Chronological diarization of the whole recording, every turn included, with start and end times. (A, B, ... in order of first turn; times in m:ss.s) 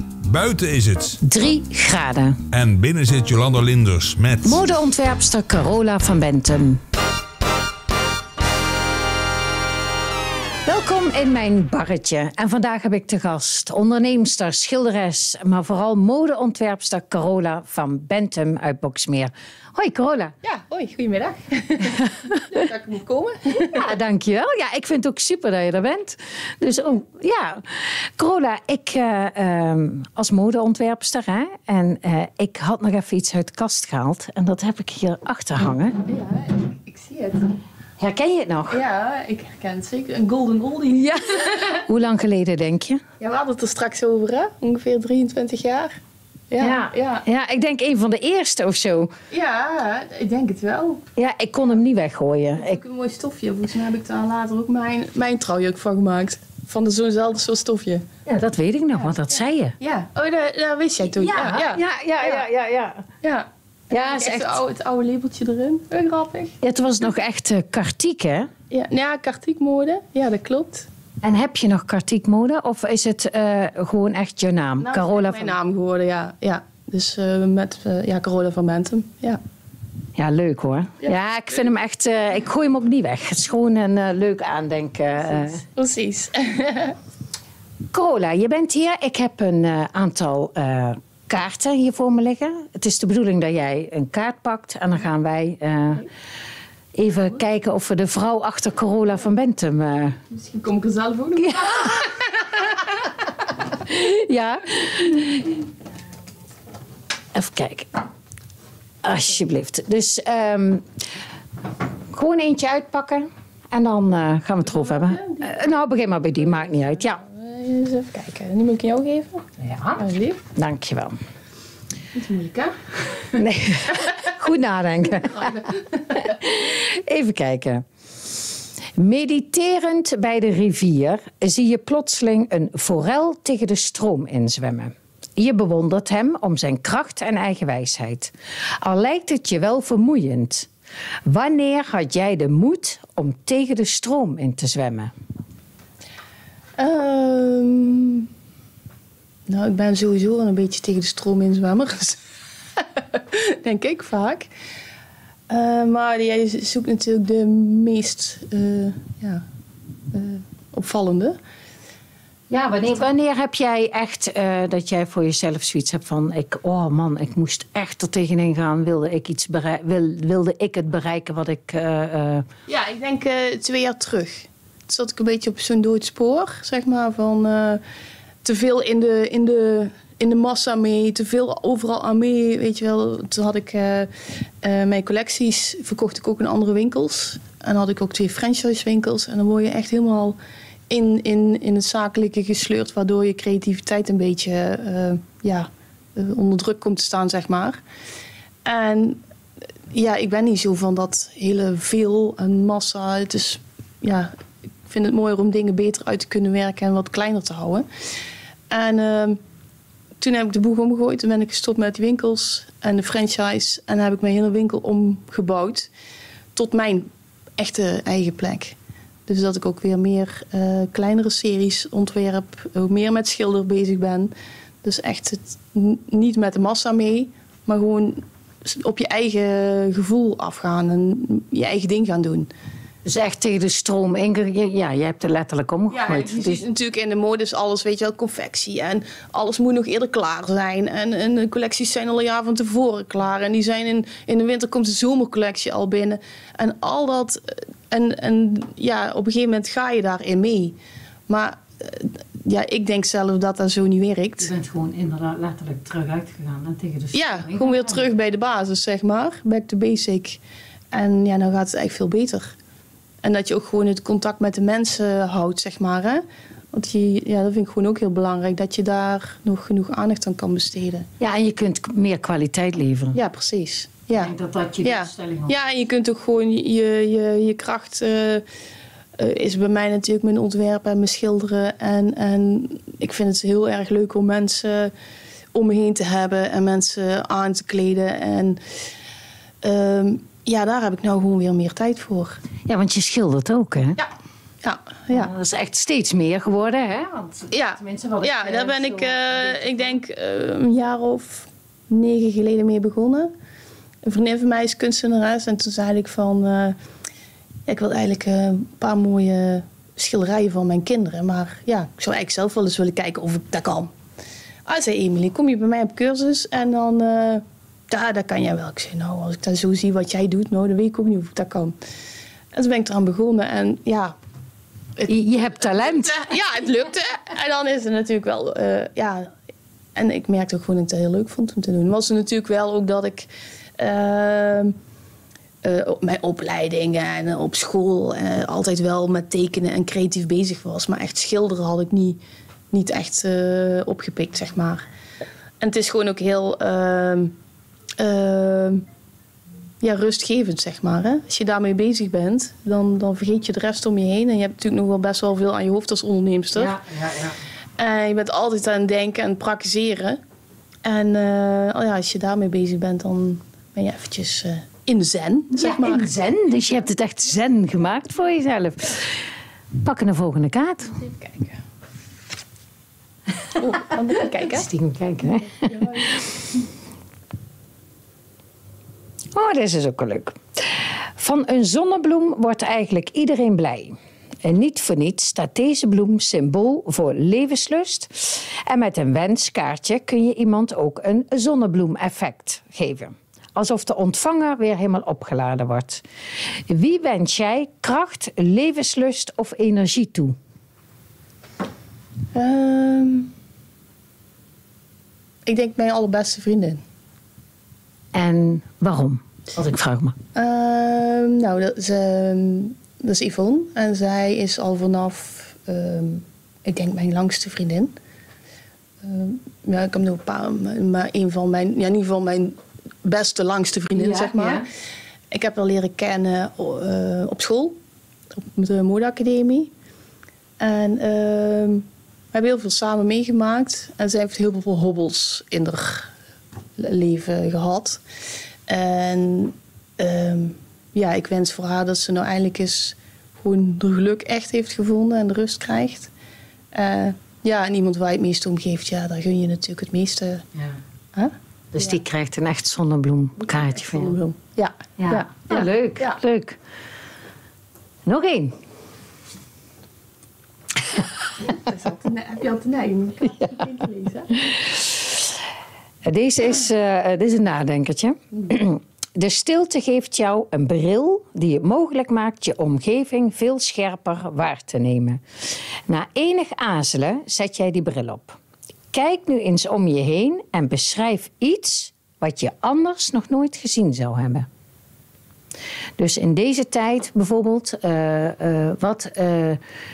0:00.2-0:01.2 A
0:01.2-0:02.4 B
0:02.5-0:04.6 A
0:04.4-0:06.8 B
0:10.7-0:20.3 B
0:20.4-0:23.9 C
0:23.6-0:36.0 B
0:36.0-0:37.6 C
0:38.0-0:38.8 B
0:38.7-0:41.8 C
0:41.3-0:43.0 B
0:43.2-0:46.0 C
0:46.5-0:47.2 C
0:46.6-0:49.1 B
0:49.3-0:51.0 C
0:51.2-0:52.8 B
0:52.6-0:58.1 C
0:58.3-0:59.8 B
0:59.8-1:02.4 C
1:01.2-1:03.1 B
1:03.2-1:06.6 C
1:03.9-1:04.6 B
1:06.6-1:08.5 B
1:08.7-1:10.9 C
1:11.2-1:15.5 B
1:14.8-1:19.4 C
1:20.2-1:25.6 B
1:25.3-1:27.0 C
1:27.9-1:36.1 B
1:37.0-1:40.2 B
1:40.3-1:43.1 C
1:41.5-1:42.1 B
1:43.7-1:45.5 B
1:47.4-1:47.9 B
1:49.0-1:50.8 B
1:52.1-1:57.2 B
1:54.6-1:59.5 C
1:59.6-2:01.2 B
2:00.0-2:00.4 C
2:02.1-2:02.8 C
2:03.3-2:07.8 B
2:05.1-2:06.3 C
2:09.0-2:20.7 B
2:21.3-2:25.1 B
2:26.8-2:28.3 C
2:29.5-2:32.2 C
2:32.8-2:34.5 C
2:35.5-2:39.4 C
2:40.1-2:41.4 C
2:42.5-2:52.5 B
2:52.7-2:57.8 C
2:58.4-3:10.4 C
3:10.9-3:17.8 C
3:18.6-3:19.2 C
3:19.9-3:24.4 C
3:24.9-3:27.9 C
3:28.7-3:29.4 C
3:30.2-3:35.9 C
3:36.6-3:44.3 C
3:44.8-3:52.5 C
3:53.0-3:56.6 B
3:55.9-4:10.8 C
4:11.3-4:14.5 C
4:14.4-4:18.1 B
4:17.1-4:20.4 C
4:20.9-4:22.6 C
4:23.2-4:31.1 C
4:31.2-4:33.2 B
4:33.2-4:38.4 C
4:34.2-4:35.6 B
4:39.2-4:44.9 C
4:45.5-4:48.6 C
4:49.6-4:52.4 C
4:52.7-4:54.0 B
4:54.6-4:55.3 C
4:55.1-4:59.9 B
4:57.5-5:03.3 C
5:04.0-5:06.8 C
5:07.7-5:13.9 C
5:14.6-5:21.8 C
5:22.5-5:24.2 C
5:25.0-5:29.3 C
5:25.0-5:26.3 B
5:30.0-5:34.8 C
5:35.6-5:42.2 C
5:42.7-5:44.8 C
5:45.6-5:47.4 C
5:48.0-5:48.8 C
5:49.8-5:56.8 C
5:56.6-5:57.4 B
5:57.8-6:00.2 C
6:00.8-6:06.1 C
6:05.5-6:09.2 B
6:09.8-6:11.0 B
6:10.9-6:11.6 C
6:13.6-6:14.7 C
6:14.4-6:16.2 B
6:15.6-6:16.2 C
6:19.3-6:36.0 B
6:36.7-6:40.4 B
6:42.3-6:43.3 C
6:45.5-6:46.8 C
6:48.1-6:50.2 B
6:50.4-6:57.9 C
6:59.0-7:04.6 C
7:04.0-7:04.7 B
7:05.3-7:07.8 C
7:08.4-7:09.7 C
7:10.6-7:16.1 C
7:16.8-7:18.0 C
7:18.7-7:26.1 C
7:26.7-7:30.4 C
7:31.1-7:32.0 C
7:31.7-7:34.2 B
7:33.4-7:36.2 C
7:35.0-7:36.6 B
7:38.1-7:38.6 B
7:41.4-7:44.4 C
7:44.5-7:45.4 B
7:46.1-7:55.2 B
7:55.9-7:58.4 B
7:58.9-8:04.5 B
8:06.0-8:09.6 B